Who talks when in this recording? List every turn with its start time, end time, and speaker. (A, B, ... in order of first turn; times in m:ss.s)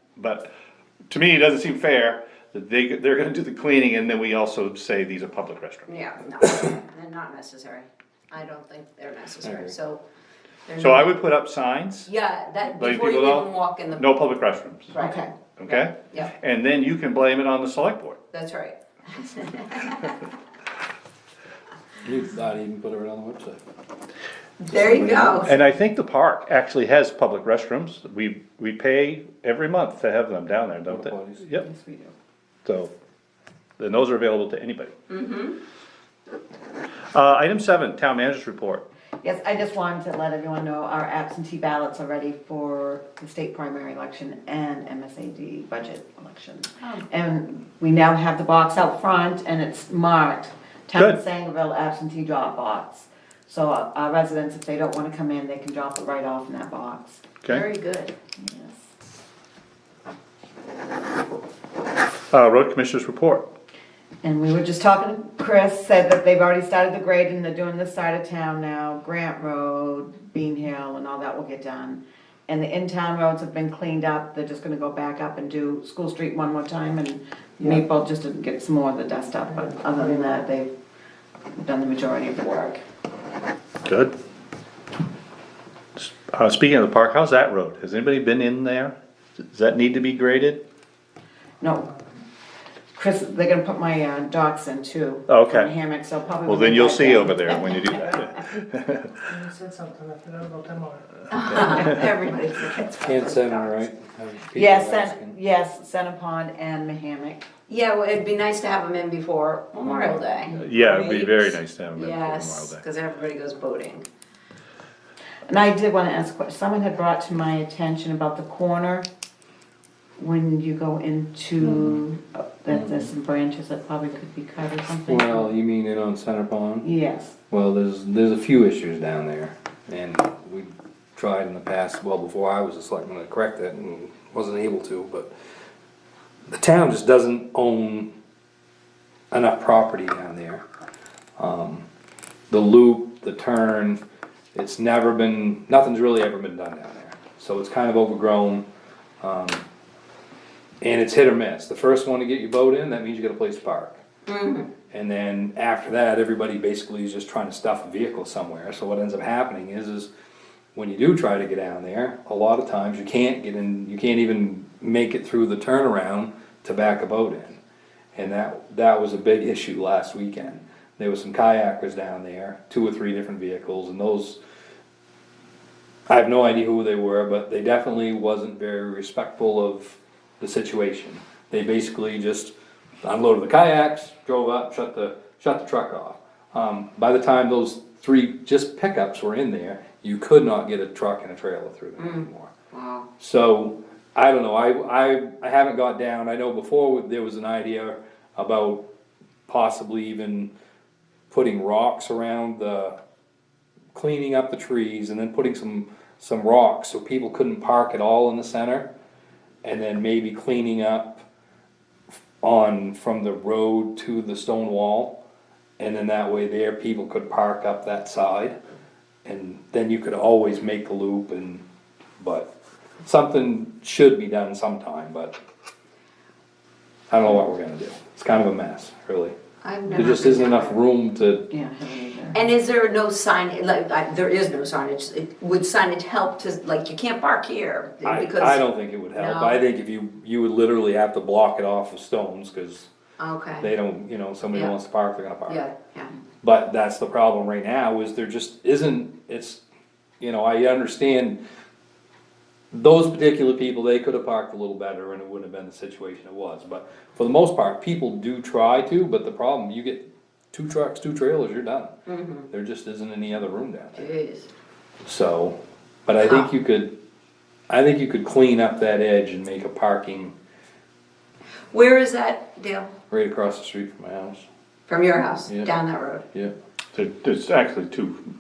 0:00.2-0:00.5 A
0:01.1-0:06.0 A
0:05.9-0:10.0 B
0:09.4-0:09.7 C
0:10.7-0:11.2 B
0:10.8-0:12.1 A
0:12.1-0:14.1 B
0:12.7-0:14.9 A
0:14.9-0:16.3 B
0:15.0-0:15.3 D
0:15.6-0:18.2 A
0:18.3-0:20.1 B
0:22.0-0:23.6 C
0:24.6-0:25.6 B
0:24.7-0:25.5 C
0:25.4-0:31.7 A
0:30.8-0:31.4 C
0:31.6-0:32.1 D
0:32.6-0:32.9 A
0:33.8-0:34.9 A
0:35.1-0:35.6 B
0:37.1-0:38.8 A
0:39.2-0:57.2 D
0:57.5-0:58.1 B
0:58.4-0:58.8 D
1:02.3-1:03.5 A
1:04.2-1:20.7 D
1:19.5-1:20.3 E
1:21.6-1:22.8 D
1:23.8-1:24.1 A
1:26.0-1:29.0 A
1:29.5-1:30.6 A
1:31.6-1:31.9 D
1:33.0-1:38.2 D
1:35.3-1:35.7 A
1:36.4-1:39.1 A
1:39.2-1:41.3 E
1:41.3-1:43.9 B
1:43.0-1:45.4 C
1:44.6-1:47.5 D
1:47.7-1:54.1 B
1:49.9-1:50.2 C
1:50.5-1:52.8 A
1:55.5-1:59.1 D
2:00.2-2:05.5 D
2:02.7-2:03.1 C
2:05.0-2:06.9 C
2:06.8-2:07.4 D
2:07.5-2:15.3 C
2:16.5-2:18.1 C
2:19.3-2:20.6 C
2:21.4-2:21.9 C
2:22.5-2:24.0 C
2:24.5-2:28.7 C
2:29.2-2:29.6 C
2:30.8-2:34.0 C
2:34.3-2:34.7 B
2:34.9-2:40.1 C
2:40.7-2:47.6 C
2:48.2-2:54.4 C
2:56.1-3:12.5 C
3:12.0-3:13.1 B
3:13.2-3:18.8 C
3:19.5-3:20.5 C
3:21.3-3:23.0 C
3:23.9-3:28.9 C
3:29.6-3:31.2 C
3:32.4-3:35.2 C
3:35.8-3:38.6 C
3:39.2-3:41.6 C
3:42.2-3:42.5 C
3:43.0-3:45.4 C
3:47.1-3:49.4 C
3:49.6-3:50.8 B
3:49.9-3:51.5 C
3:51.5-3:52.4 D
3:52.3-3:59.6 B
3:58.0-4:02.9 C
4:03.2-4:03.7 B
4:03.6-4:05.6 C
4:05.5-4:06.2 B
4:06.4-4:09.6 C
4:10.2-4:11.4 C
4:12.7-4:22.0 C
4:22.1-4:22.5 B
4:22.5-4:24.1 C
4:24.0-4:24.5 B
4:25.0-4:27.0 C
4:26.2-4:26.5 B
4:27.7-4:30.4 C
4:31.7-4:32.9 B
4:33.1-4:34.5 C
4:34.9-4:36.2 B
4:35.5-4:35.8 C
4:36.9-4:38.2 A